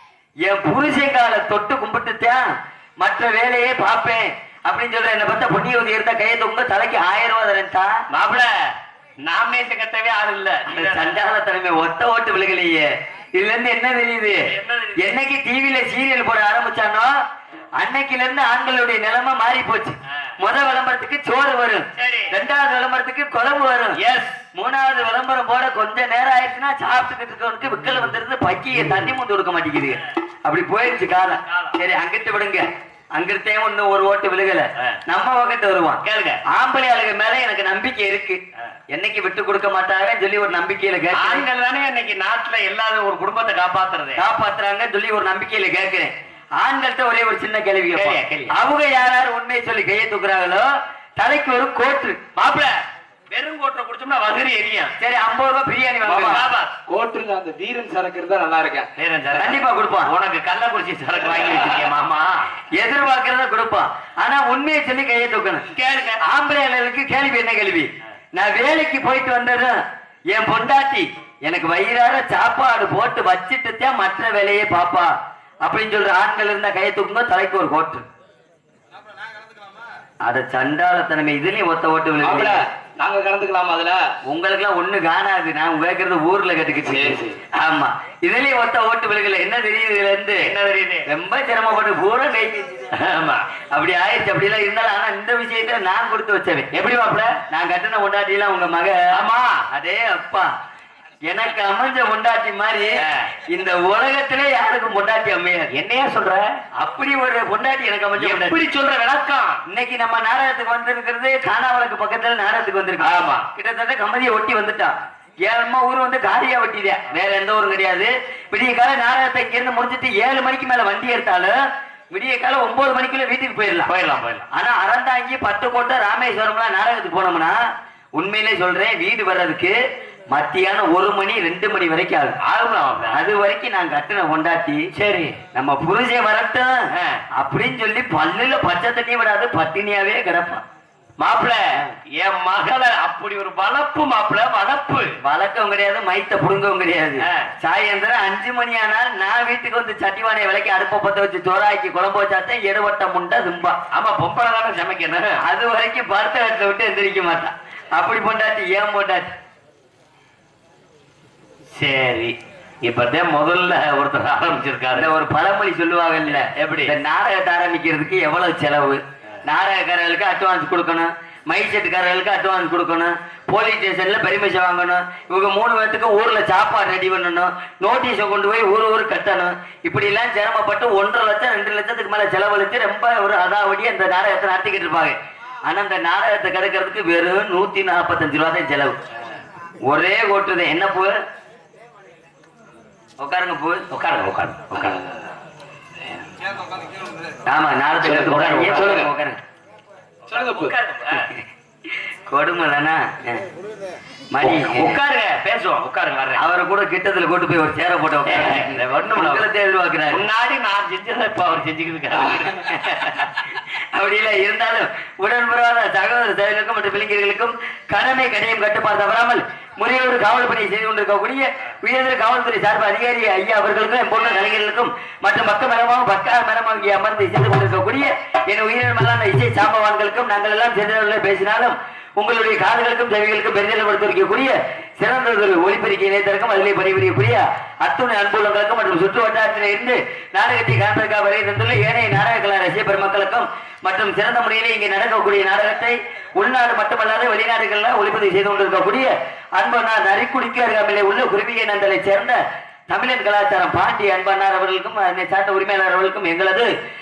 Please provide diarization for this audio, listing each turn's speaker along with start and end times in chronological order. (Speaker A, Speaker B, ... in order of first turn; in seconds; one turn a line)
Speaker A: 0.4-2.5
Speaker A: 3.0-8.0
Speaker B: 8.1-8.7
Speaker B: 9.2-11.2
Speaker A: 10.7-17.2
Speaker B: 14.3-15.2
Speaker A: 17.8-24.0
Speaker B: 22.0-22.3
Speaker B: 23.9-24.4
Speaker A: 24.5-38.4
Speaker B: 31.4-31.8
Speaker B: 36.0-36.4
Speaker A: 38.9-41.5
Speaker B: 41.1-44.2
Speaker A: 44.2-50.7
Speaker B: 48.0-48.5
Speaker A: 51.2-52.2
Speaker B: 52.4-52.8
Speaker B: 53.3-55.0
Speaker A: 55.0-56.5
Speaker B: 56.1-56.7
Speaker C: 56.9-58.9
Speaker B: 59.0-62.5
Speaker A: 59.4-60.1
Speaker A: 62.7-65.7
Speaker B: 65.7-66.2
Speaker A: 66.2-69.8
Speaker A: 70.3-75.1
Speaker A: 75.6-78.1
Speaker A: 80.2-82.6
Speaker C: 82.2-84.0
Speaker A: 84.3-90.5
Speaker C: 86.9-87.4
Speaker B: 90.4-91.1
Speaker A: 91.1-92.8
Speaker B: 92.9-93.5
Speaker A: 93.7-96.7
Speaker B: 96.7-97.4
Speaker A: 97.5-99.0
Speaker B: 99.1-99.7
Speaker A: 99.7-100.5
Speaker A: 101.3-105.7
Speaker B: 103.0-103.3
Speaker B: 105.7-106.5
Speaker A: 106.8-108.6
Speaker B: 108.2-109.6
Speaker A: 109.7-121.6
Speaker B: 113.0-113.5
Speaker A: 122.1-123.9
Speaker B: 123.9-124.5
Speaker A: 124.5-127.6
Speaker A: 128.2-129.8
Speaker A: 130.3-132.4
Speaker B: 132.4-133.2
Speaker A: 133.1-134.9
Speaker B: 134.9-135.4
Speaker A: 135.5-140.6
Speaker B: 136.9-137.2
Speaker B: 141.2-145.1
Speaker A: 145.2-153.8
Speaker B: 147.2-147.5
Speaker B: 153.9-155.4
Speaker A: 155.4-159.3
Speaker B: 161.7-165.1
Speaker A: 164.9-188.9
Speaker B: 166.3-166.9
Speaker A: 189.9-191.2
Speaker A: 193.2-193.9
Speaker B: 193.9-195.0
Speaker C: 194.8-195.2
Speaker A: 197.5-199.4
Speaker C: 198.1-199.1
Speaker B: 198.1-199.0
Speaker B: 200.3-201.3
Speaker C: 200.3-200.8
Speaker A: 202.3-203.4
Speaker A: 204.3-205.0
Speaker B: 204.4-206.4
Speaker A: 206.4-210.2
Speaker B: 208.3-209.5
Speaker B: 210.1-213.2
Speaker A: 212.8-213.3
Speaker A: 213.9-256.7